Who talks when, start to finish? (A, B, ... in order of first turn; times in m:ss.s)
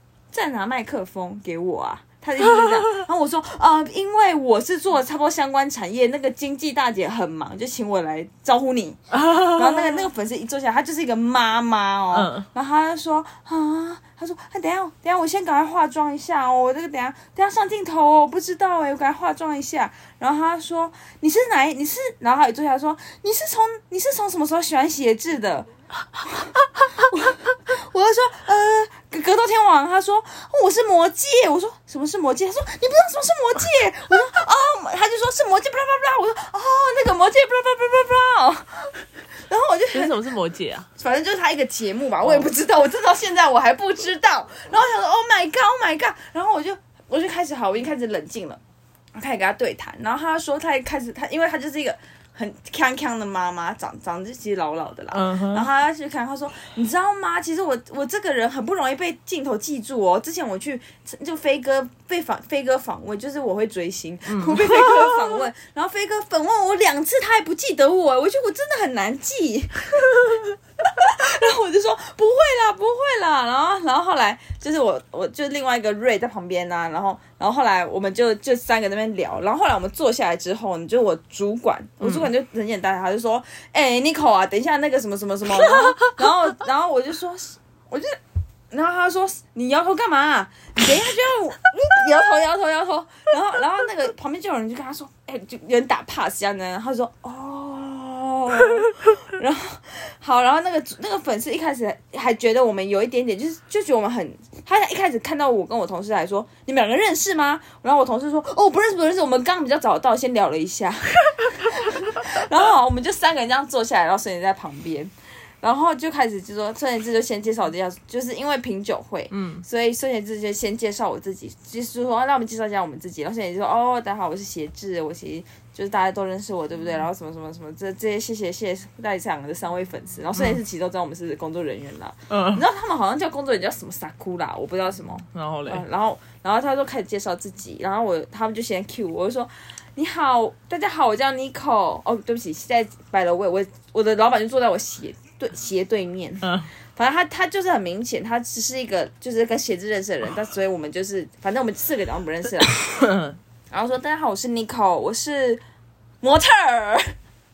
0:00.3-0:25.7 A
0:09.1-0:10.1 B
0:12.1-0:12.5 B
0:26.3-0:40.2 A
0:39.9-0:40.9 B
0:41.0-0:48.6 A
0:42.2-0:42.5 B
0:49.1-1:28.2 A
0:55.1-0:55.7 B
1:04.3-1:05.4 B
1:28.7-2:32.8 A
1:59.3-1:59.6 B
2:12.3-2:12.6 B
2:15.3-2:15.8 B
2:26.4-2:26.7 B
2:32.8-2:33.4 B
2:33.7-2:35.6 A
2:36.2-2:37.2 A